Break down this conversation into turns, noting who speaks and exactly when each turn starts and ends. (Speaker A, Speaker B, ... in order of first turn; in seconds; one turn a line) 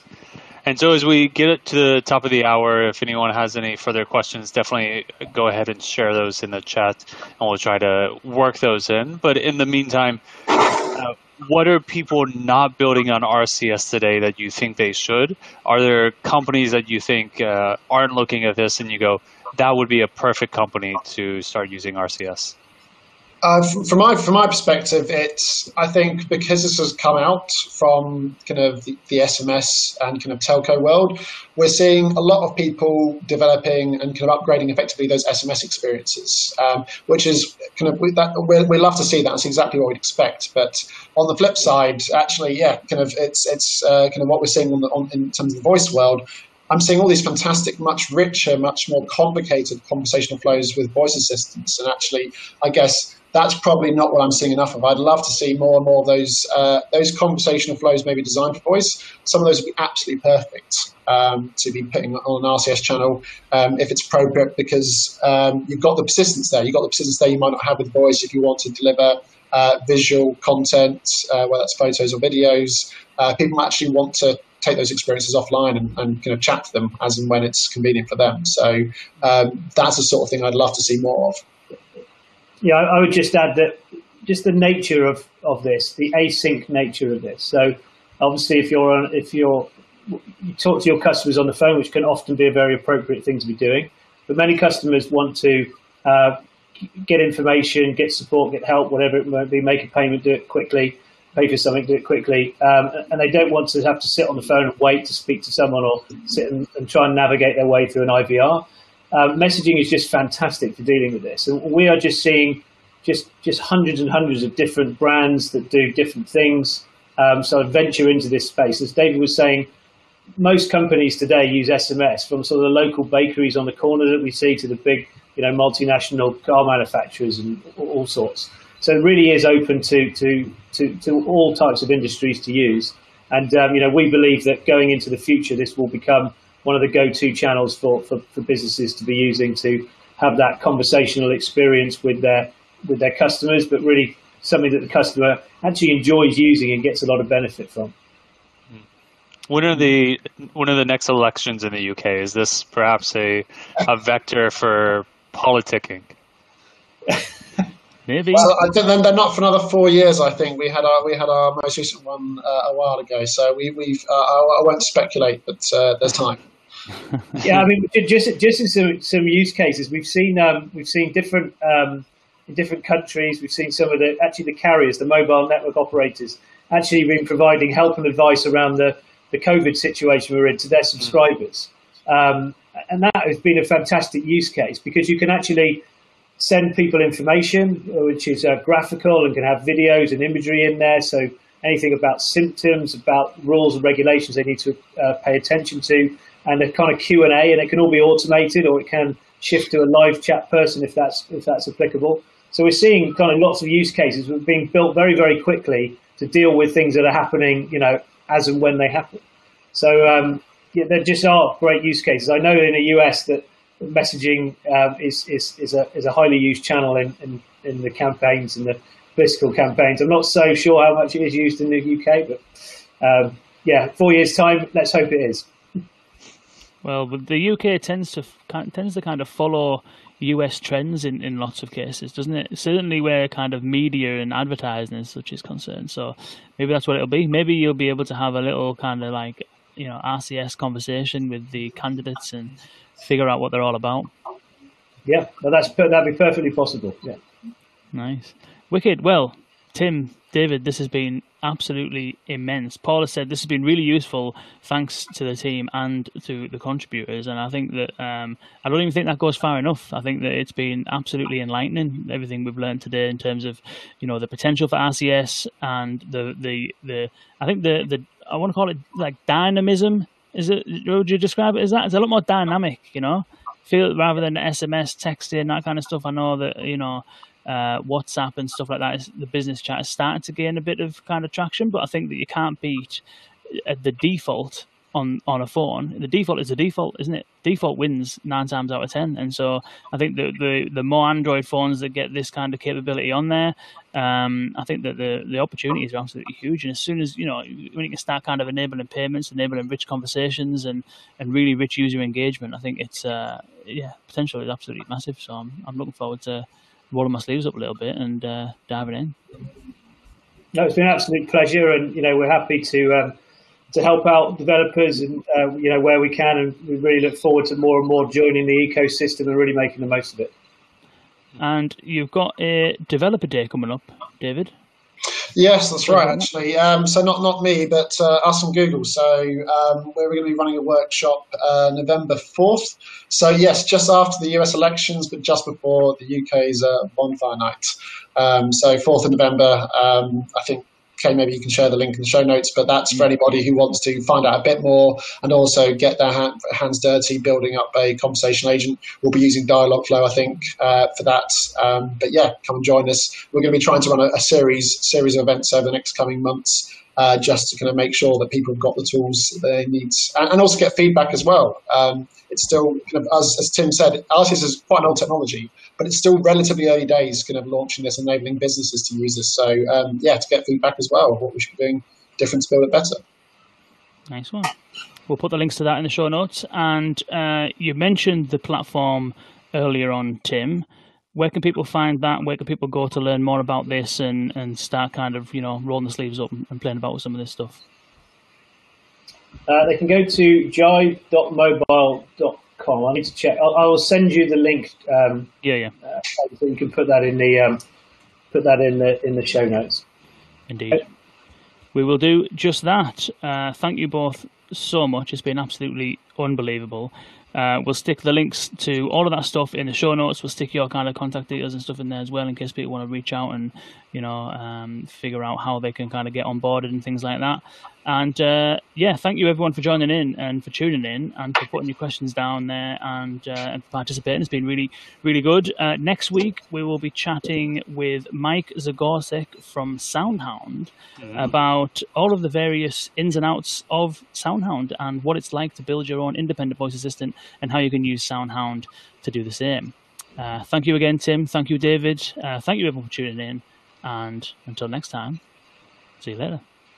Speaker A: 0.7-22.6
Speaker B: 23.4-81.4
Speaker C: 82.6-96.4
Speaker C: 97.0-119.7
Speaker C: 120.4-147.9
Speaker A: 149.5-156.1
Speaker D: 158.1-158.5
Speaker B: 158.4-166.4
Speaker C: 167.4-185.8
Speaker C: 186.4-209.2
Speaker C: 209.7-222.4
Speaker C: 223.0-225.5
Speaker D: 226.8-244.1
Speaker C: 245.1-247.2
Speaker D: 247.9-309.2
Speaker C: 310.5-313.1
Speaker C: 313.7-320.3
Speaker D: 321.4-324.6
Speaker B: 325.4-373.0
Speaker D: 325.9-326.2
Speaker D: 374.1-374.6
Speaker D: 375.1-387.6
Speaker C: 389.5-395.3
Speaker D: 395.4-395.7
Speaker C: 395.9-397.6
Speaker C: 398.3-399.8
Speaker D: 400.5-400.8
Speaker D: 401.7-445.2
Speaker A: 431.0-431.3
Speaker D: 446.0-446.4